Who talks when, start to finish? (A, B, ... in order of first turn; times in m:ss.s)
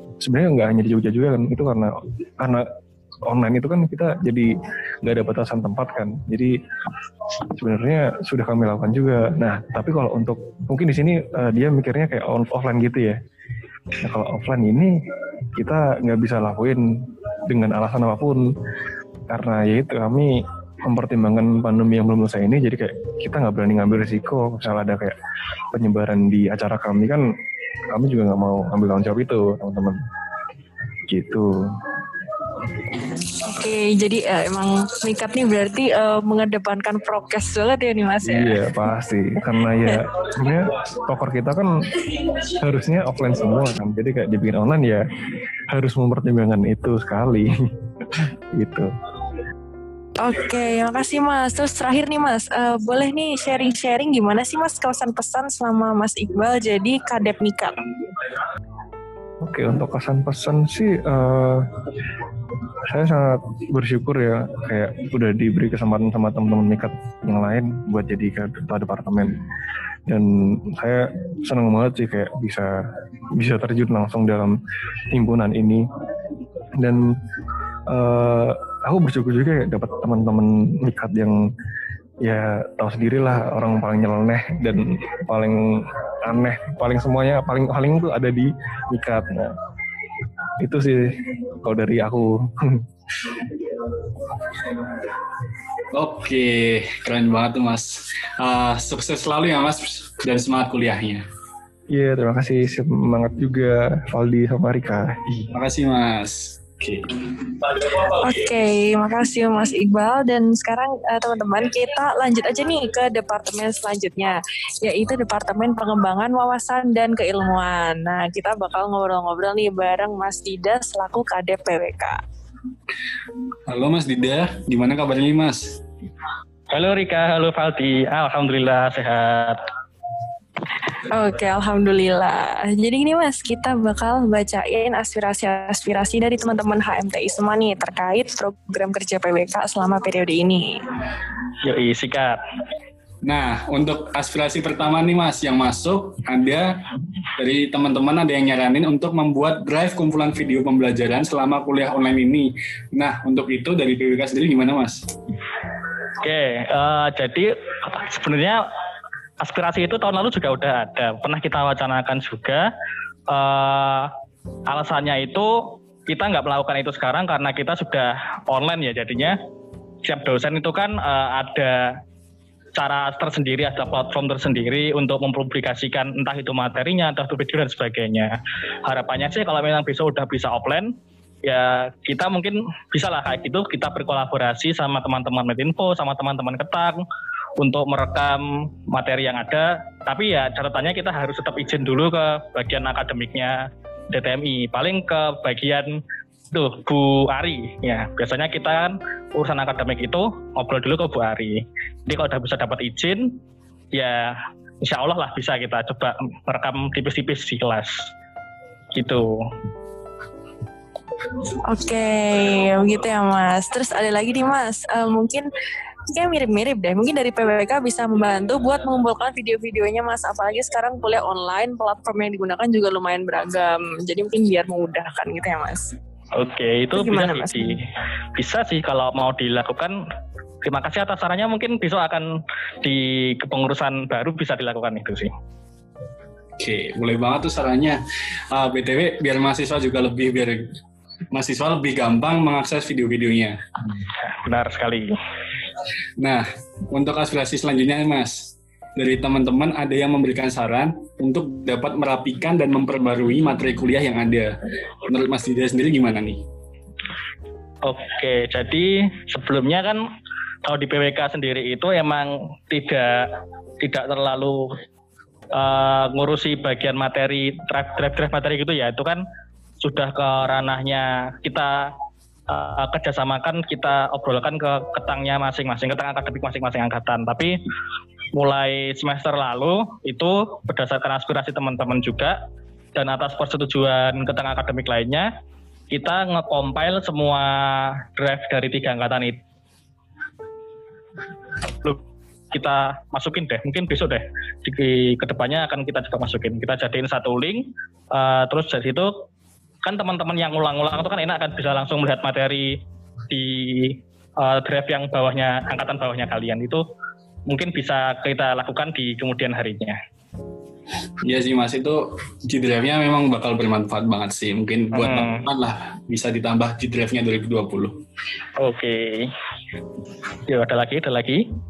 0:00.2-0:02.6 A
0:03.3-0:04.5 A
0:05.0-0:06.5 A
0:07.5-0:13.2 A
0:14.0-0:14.9 A
0:15.6-0:16.8 A
0:17.5-0:18.4 A
0:19.3-0:20.3 A
0:20.8-0:25.1 A
0:25.7-0:27.2 A
0:27.9-0:30.0 A
0:31.1-0:31.5 A
0:33.4-0:38.6 B
0:38.2-0:41.7 A
0:42.6-0:45.0 A
0:45.7-0:47.5 A
0:48.2-0:48.9 A
0:50.2-0:57.8 B
0:59.4-1:01.7 A
1:02.8-1:09.4 A
1:10.1-1:12.7 A
1:13.4-1:14.6 A
1:15.1-1:15.8 A
1:17.9-1:21.4 A
1:22.2-1:29.6 A
1:30.6-1:32.8 A
1:35.9-1:41.2 C
1:41.9-1:45.5 A
1:45.5-1:47.1 C
1:48.2-2:02.2 B
2:03.7-2:05.8 C
2:06.7-2:09.6 D
2:11.1-2:20.8 B
2:21.6-2:22.4 D
2:23.2-2:26.7 C
2:27.4-2:35.0 C
2:36.2-2:38.6 D
2:39.4-2:42.7 D
2:43.3-2:44.1 D
2:44.7-2:49.4 D
2:50.0-2:52.0 D
2:52.7-3:07.0 D
3:07.6-3:16.0 D
3:16.5-3:23.4 D
3:23.9-3:28.1 D
3:28.9-3:29.3 D
3:31.7-3:35.5 B
3:36.1-3:45.9 B
3:46.3-3:47.8 D
3:46.9-3:47.7 B
3:48.4-3:50.0 D
3:50.6-3:52.3 D
3:52.8-3:55.3 D
3:56.6-4:00.7 C
4:01.3-4:03.6 C
4:04.2-4:05.2 D
4:06.2-4:14.6 C
4:15.1-4:16.4 C
4:17.8-4:20.0 D
4:20.6-4:24.8 D
4:25.5-4:29.2 D
4:29.8-4:31.9 D
4:32.5-4:37.6 D
4:38.3-4:42.4 D
4:42.9-4:45.3 D
4:45.9-4:49.4 D
4:52.5-4:59.2 D
4:59.8-5:06.8 D
5:07.5-5:10.0 D
5:11.2-5:18.0 C
5:14.9-5:15.4 D
5:18.6-5:19.3 D
5:20.5-5:21.4 D